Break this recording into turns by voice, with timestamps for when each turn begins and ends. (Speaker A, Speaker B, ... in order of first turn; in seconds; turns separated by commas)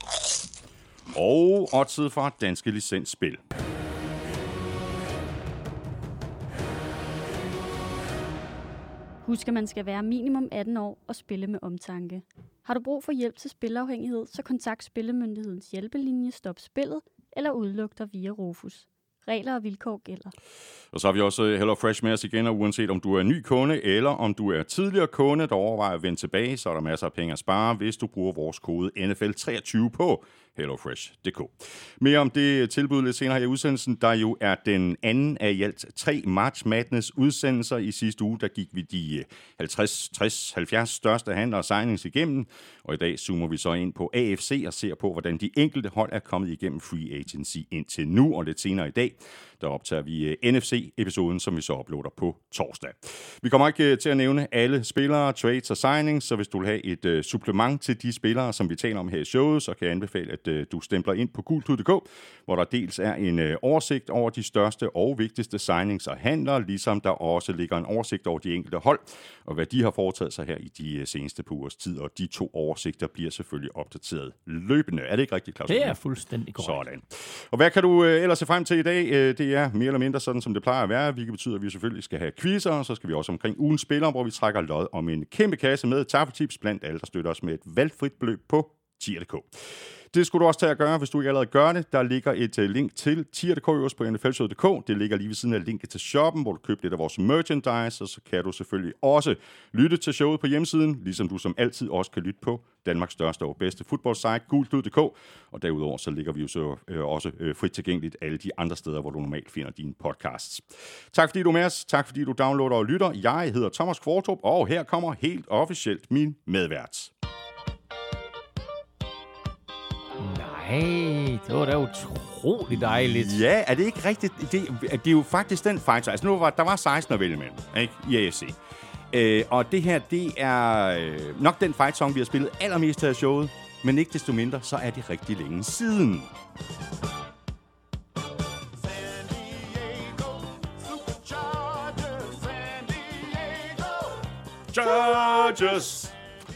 Speaker A: 1.1-3.4, Speaker B: 9.2-20.3, Speaker A: 20.9-76.0, Speaker C: 75.7-76.8, Speaker A: 76.6-117.1, Speaker C: 120.2-123.4, Speaker A: 122.7-128.6, Speaker A: 129.1-136.3, Speaker A: 138.9-144.0, Speaker A: 144.7-146.1